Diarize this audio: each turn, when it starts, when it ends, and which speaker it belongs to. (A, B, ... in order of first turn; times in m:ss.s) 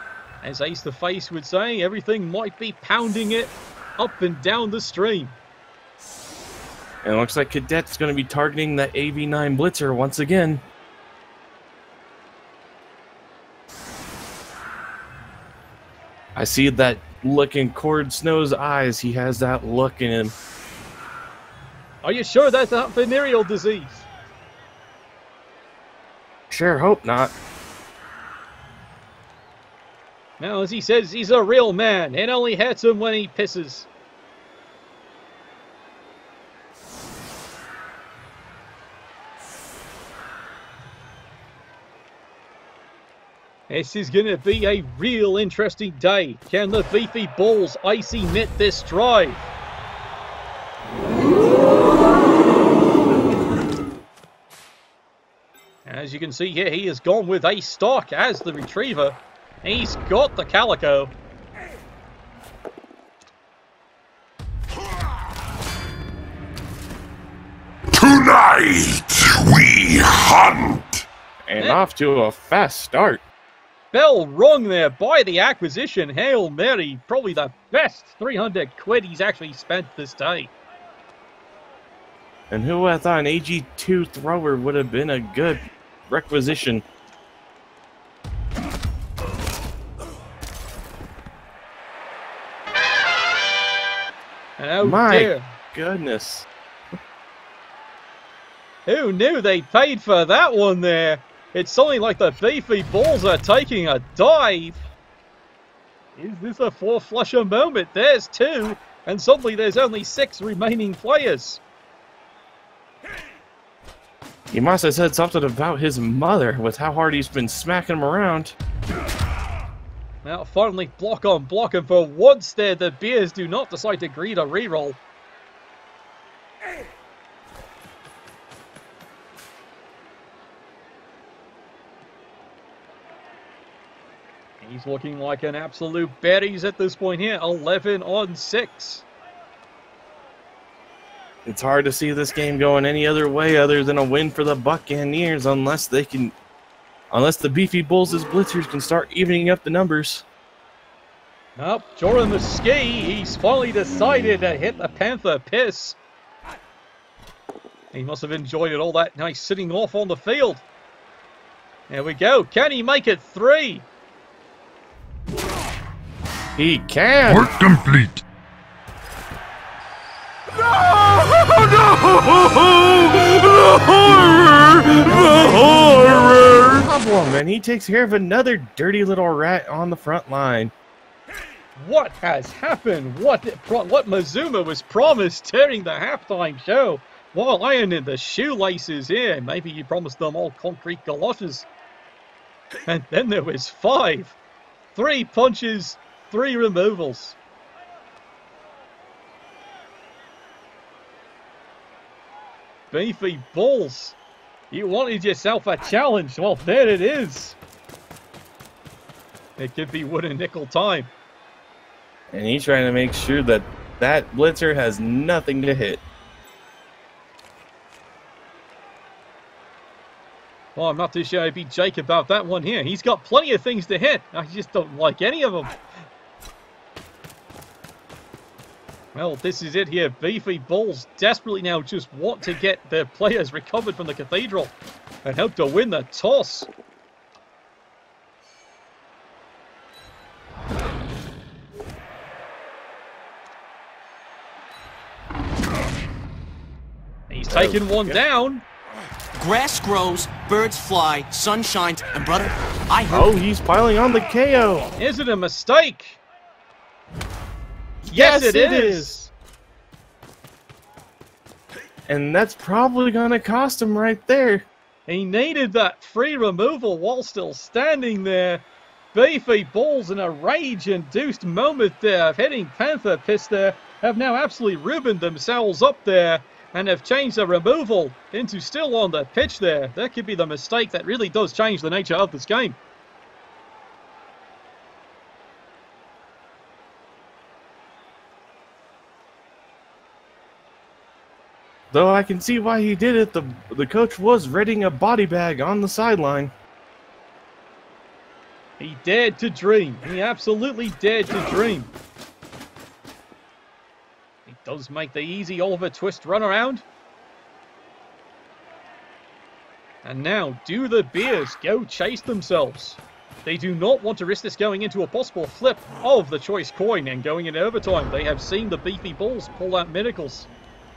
0:00.4-0:05.3 A
0:07.0-0:10.6 B
0:16.3-0:20.3 B
0:22.0-0:24.1 A
0:26.5-0:27.3 B
0:30.4-0:33.9 A
0:43.7-0:49.5 A
0:55.8-1:01.1 A
1:07.9-1:10.9 C
1:11.5-1:13.2 B
1:13.9-1:20.5 A
1:22.5-1:26.8 B
1:34.6-1:35.4 A
1:34.8-1:36.5 B
1:38.8-1:44.9 A
1:46.2-1:51.6 A
1:54.5-1:58.5 B
2:00.2-2:05.0 A
2:14.6-2:19.0 A
2:21.4-2:26.3 B
2:27.1-2:30.2 B
2:31.6-2:36.0 A
2:37.9-2:40.6 A
2:41.9-2:43.8 A
2:46.6-2:47.5 B
2:47.3-2:48.2 C
2:55.0-3:00.7 B
2:55.1-2:55.5 A
3:01.8-3:11.7 A
3:12.8-3:14.4 A
3:14.9-3:17.4 A
3:22.9-3:24.2 A
3:24.7-3:27.6 A
3:29.6-3:31.1 A
3:32.3-3:36.0 B
3:40.8-3:45.7 A
3:49.1-3:54.7 A
3:55.2-3:56.7 A
4:07.3-4:08.6 A
4:07.5-4:08.2 B
4:09.4-4:13.3 D
4:13.1-4:14.9 B
4:15.0-4:16.2 A
4:18.0-4:19.2 B
4:18.1-4:19.3 A
4:22.1-4:24.6 B
4:25.1-4:42.8 A
4:51.9-4:56.5 B
4:58.8-5:01.9 A
5:04.4-5:06.8 A
5:10.0-5:20.5 A